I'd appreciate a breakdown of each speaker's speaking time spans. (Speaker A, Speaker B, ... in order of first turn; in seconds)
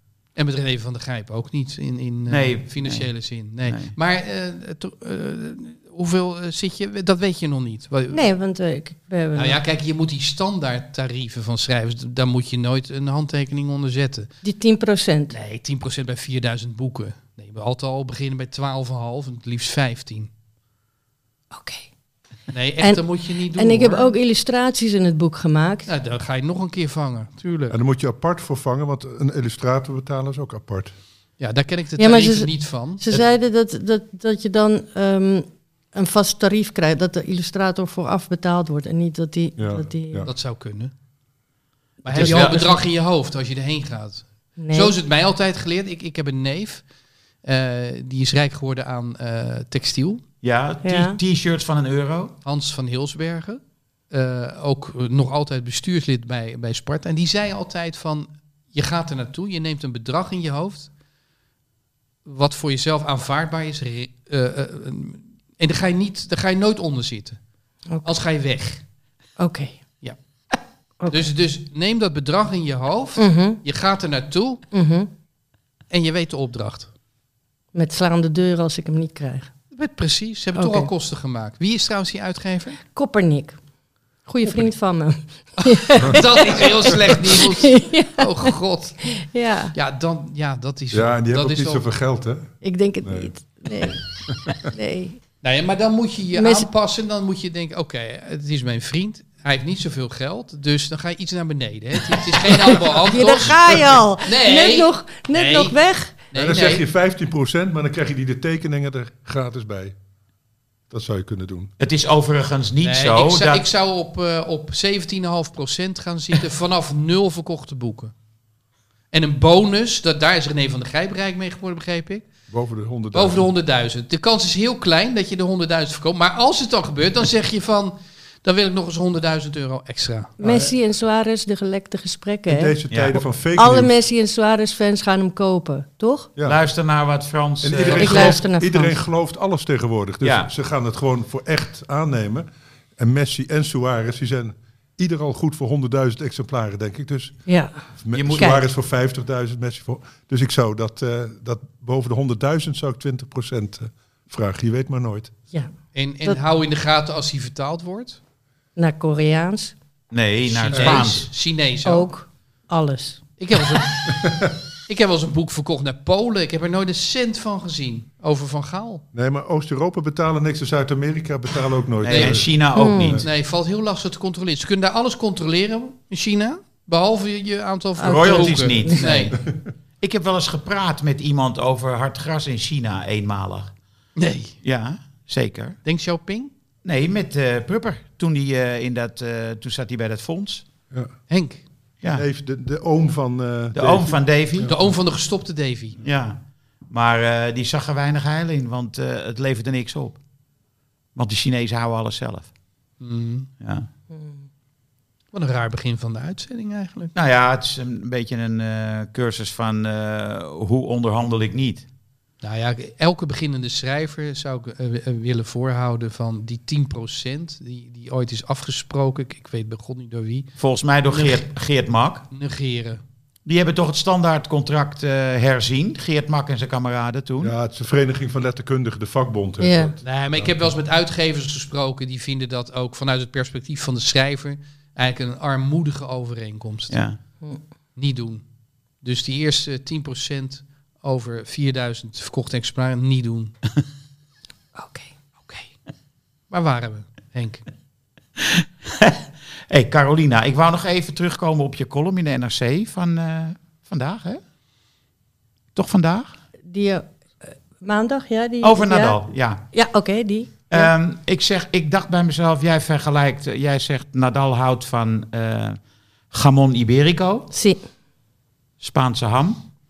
Speaker A: 0.3-8.2, 9.3-14.3, 15.3-20.3, 22.5-24.1, 25.9-27.8, 31.4-33.0, 40.2-40.9, 42.0-46.9, 47.4-50.2, 52.5-60.9, 62.2-67.4, 68.0-68.8, 71.1-74.6, 75.9-76.9, 79.7-82.8, 85.7-89.1, 89.7-91.9, 95.4-106.8, 112.8-118.1, 119.1-122.3, 123.1-130.3, 155.9-158.2, 160.5-162.1, 163.4-164.3, 164.9-169.0, 172.1-172.5, 173.2-179.3, 184.2-184.6, 185.8-186.5, 191.3-191.6, 194.6-196.0, 203.0-203.5, 205.3-207.1, 212.4-220.5, 221.1-221.5, 222.3-223.0, 230.0-237.1, 238.0-238.4, 239.0-243.5, 246.5-247.7
Speaker B: 2.3-4.0, 42.0-42.7, 50.4-52.4, 111.8-113.7, 132.9-133.2, 136.4-138.4, 140.2-140.5, 148.1-148.6, 160.1-161.3, 172.0-173.2, 178.0-183.7, 184.6-185.8, 186.8-190.7, 193.7-194.7, 196.0-200.2, 201.2-202.5, 203.6-203.9, 207.2-211.8, 220.6-222.3, 223.5-227.5, 236.9-237.2, 248.4-249.2, 249.7-254.4, 255.8-256.3, 258.6-259.7, 260.7-265.8, 266.3-267.5, 268.8-269.6
Speaker C: 8.1-9.6, 14.4-15.4, 21.5-21.9, 22.8-25.9, 32.0-40.3, 42.1-42.8, 44.6-44.9, 50.8-51.2, 67.9-68.2, 69.4-69.8, 73.2-73.6, 74.7-75.1, 77.7-79.5, 80.5-80.9, 82.8-83.6, 84.2-88.5, 89.2-89.8, 92.6-94.0, 94.6-95.2, 96.3-96.7, 102.4-106.2, 130.4-132.8, 133.6-136.3, 137.9-139.0, 147.5-147.9, 148.4-148.6, 158.8-159.8, 161.8-163.2, 172.8-173.2, 178.0-179.0, 204.1-204.4, 229.6-229.9, 244.8-245.7, 256.7-259.2, 259.7-260.9, 267.5-267.8
Speaker D: 27.7-31.0, 39.6-40.3, 90.9-93.3, 94.3-94.5, 103.7-104.0, 106.3-110.0, 110.9-111.7, 122.5-123.5, 130.4-130.8, 132.5-133.9, 137.6-155.3, 160.7-161.1, 164.2-164.5, 169.1-173.3, 192.1-194.9, 227.4-230.7